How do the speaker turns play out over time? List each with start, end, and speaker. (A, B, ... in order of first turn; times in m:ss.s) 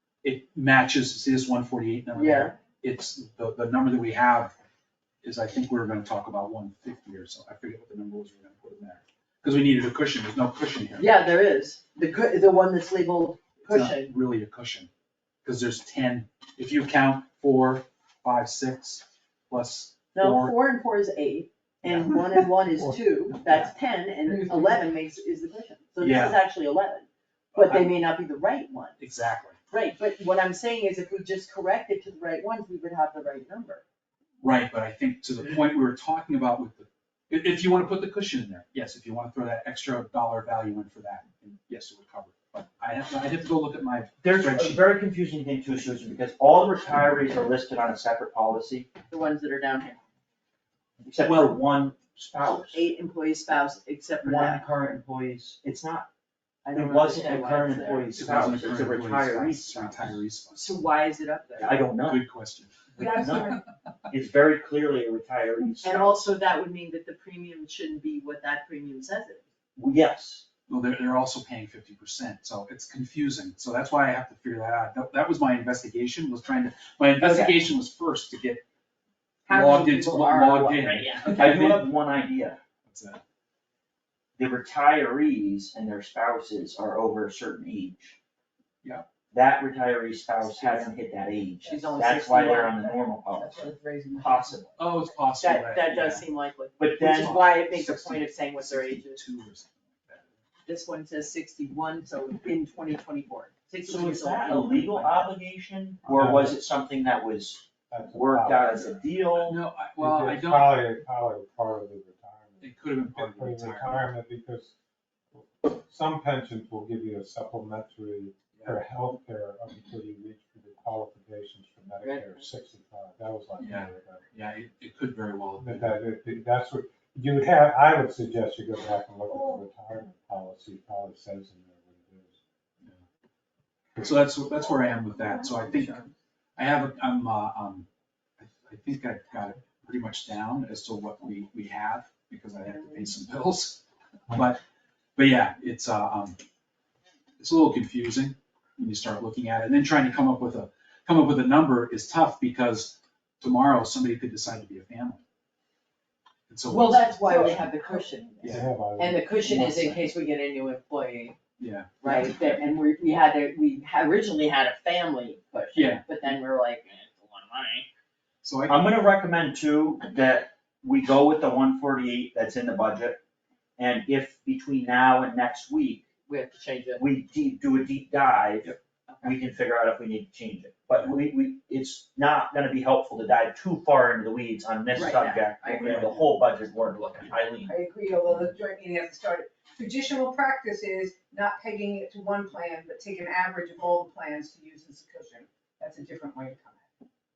0:00.2-0:04.5 A
0:02.1-0:02.6 B
0:05.2-0:11.2 A
0:11.0-0:14.1 B
0:13.7-0:14.9 A
0:15.4-0:20.6 A
0:20.1-0:29.0 B
0:21.9-0:22.2 A
0:22.8-0:23.7 A
0:24.3-0:24.8 C
0:26.0-0:26.4 A
0:27.5-0:27.9 A
0:29.0-0:29.6 A
0:29.7-0:33.8 B
0:34.4-0:44.8 A
0:44.2-0:48.9 D
0:49.1-0:50.0 B
0:51.1-0:52.9 D
0:51.2-0:51.6 A
0:52.7-0:54.7 B
0:54.2-0:56.1 D
0:56.6-0:58.6 B
0:56.7-1:00.2 D
0:58.2-1:00.8 A
1:00.5-1:01.9 B
1:01.6-1:02.2 D
1:02.0-1:03.5 A
1:03.0-1:03.6 C
1:03.0-1:03.5 D
1:04.1-1:06.2 D
1:05.8-1:09.4 B
1:09.8-1:10.5 D
1:10.7-1:18.6 A
1:19.5-1:21.5 B
1:19.5-1:21.9 A
1:20.0-1:20.6 C
1:21.3-1:22.6 D
1:22.8-1:23.2 A
1:24.4-1:28.2 D
1:29.3-1:33.6 D
1:30.4-1:30.9 B
1:31.6-1:32.0 C
1:31.7-1:32.8 B
1:32.6-1:34.6 C
1:34.2-1:34.8 D
1:34.8-1:36.3 A
1:35.4-1:39.2 B
1:36.8-1:37.4 D
1:37.0-1:40.4 A
1:40.7-1:45.3 B
1:43.8-1:49.6 D
1:46.0-1:46.6 E
1:47.9-1:49.0 E
1:49.4-1:51.0 A
1:50.0-1:54.7 E
1:52.6-1:54.1 A
1:55.3-2:04.2 E
1:58.5-1:58.8 A
2:02.0-2:02.5 B
2:03.6-2:06.0 A
2:05.6-2:12.4 E
2:09.3-2:09.7 C
2:14.0-2:16.0 A
2:15.0-2:16.1 C
2:16.6-2:17.9 A
2:18.4-2:24.6 A
2:25.2-2:26.4 A
2:27.4-2:35.2 A
2:36.5-2:37.7 A
2:36.7-2:41.4 B
2:37.2-2:38.2 C
2:38.4-2:38.7 A
2:38.4-2:39.6 E
2:39.4-2:40.1 A
2:41.6-2:42.3 A
2:42.0-2:47.9 B
2:45.7-2:46.0 A
2:48.4-2:48.9 A
2:48.7-2:53.2 D
2:53.8-2:56.0 D
2:56.3-2:57.0 B
2:57.0-3:07.7 D
3:04.9-3:06.1 B
3:05.8-3:06.3 A
3:07.7-3:16.9 C